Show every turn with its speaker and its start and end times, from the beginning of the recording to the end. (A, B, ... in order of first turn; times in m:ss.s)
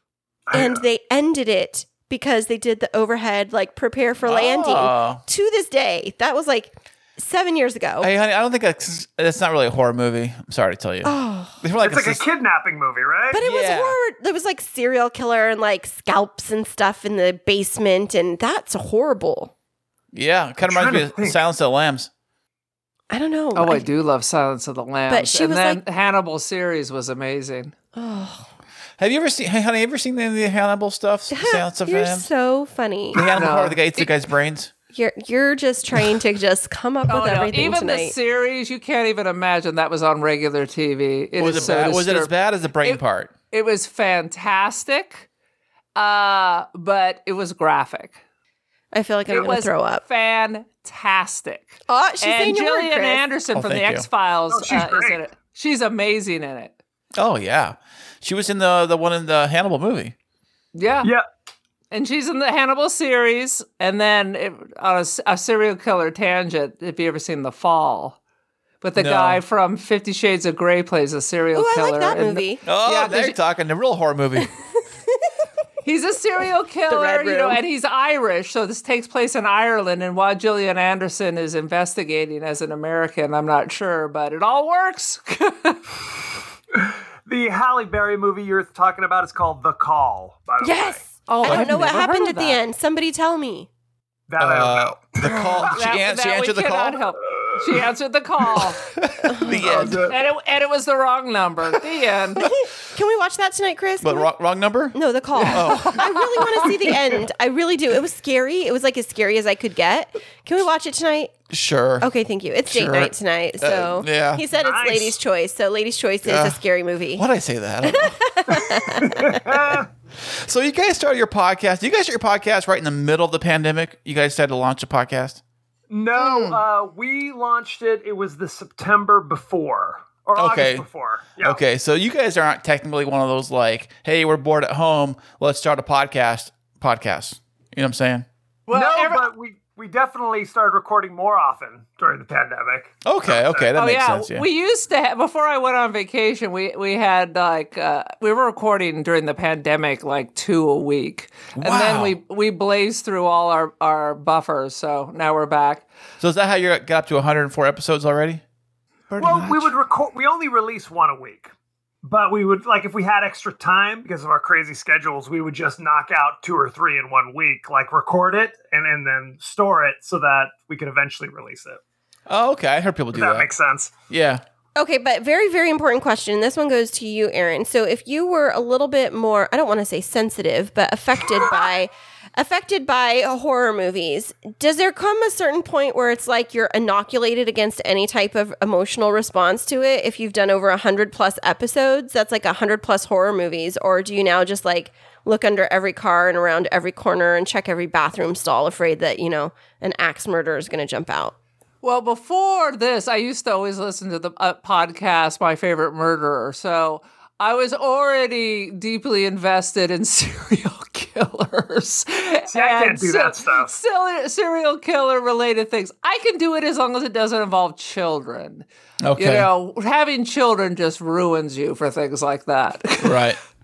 0:00.5-0:00.8 A
0:00.5-0:08.1 B
0:04.2-0:05.2 C
0:08.0-0:12.2 C
0:11.0-0:11.6 B
0:11.8-0:13.4 A
0:13.3-0:19.5 B
0:13.4-0:14.0 C
0:20.1-0:22.1 C
0:20.6-0:21.4 A
0:23.1-0:23.9 B
0:23.5-0:27.7 D
0:25.1-0:25.8 B
0:27.9-0:28.4 B
0:29.0-0:32.3 C
0:31.3-0:33.3 B
0:33.1-0:34.7 C
0:33.3-0:34.1 D
0:34.9-0:38.1 B
0:37.1-0:45.2 D
0:41.4-0:43.3 C
0:46.0-0:48.2 D
0:48.9-0:50.0 B
0:49.3-0:56.7 D
0:51.9-0:53.2 B
0:53.5-0:54.0 C
0:54.5-0:55.2 A
0:57.2-1:00.1 C
1:00.7-1:01.1 D
1:01.9-1:08.2 D
1:08.8-1:13.4 D
1:09.0-1:09.4 C
1:11.5-1:12.6 B
1:12.6-1:14.5 C
1:15.8-1:25.9 D
1:16.9-1:17.6 B
1:26.7-1:31.1 A
1:30.6-1:33.7 B
1:31.3-1:32.6 D
1:31.4-1:31.7 C
1:34.3-1:35.6 A
1:34.4-1:37.0 C
1:35.7-1:38.8 D
1:37.3-1:37.6 A
1:38.5-1:40.1 C
1:39.2-1:40.0 B
1:39.5-1:40.2 A
1:39.8-1:42.4 D
1:42.4-1:44.3 B
1:44.0-1:46.3 C
1:44.9-1:51.3 B
1:45.4-1:47.0 D
1:51.5-1:52.1 C
1:52.0-1:57.2 B
1:52.7-1:54.4 C
1:54.5-1:55.2 A
1:56.2-1:56.6 C
1:57.1-1:58.2 C
1:57.9-1:59.4 B
1:58.7-1:59.9 A
2:00.2-2:05.4 C
2:05.9-2:11.6 A
2:06.2-2:06.6 D
2:10.4-2:10.8 C
2:11.4-2:18.2 C
2:18.7-2:19.3 D
2:18.7-2:23.7 A
2:23.0-2:24.5 C
2:23.7-2:35.9 D
2:31.6-2:32.2 C
2:36.2-2:38.4 C
2:39.1-2:39.7 C
2:39.2-2:41.5 A
2:42.0-2:51.8 A
2:52.3-2:53.5 C
2:53.1-2:53.9 A
2:54.1-2:54.4 C
2:54.8-3:21.3 B
3:21.8-3:38.6 D
3:32.5-3:33.7 A
3:39.0-3:39.5 C
3:39.2-3:43.2 D
3:43.0-3:43.4 C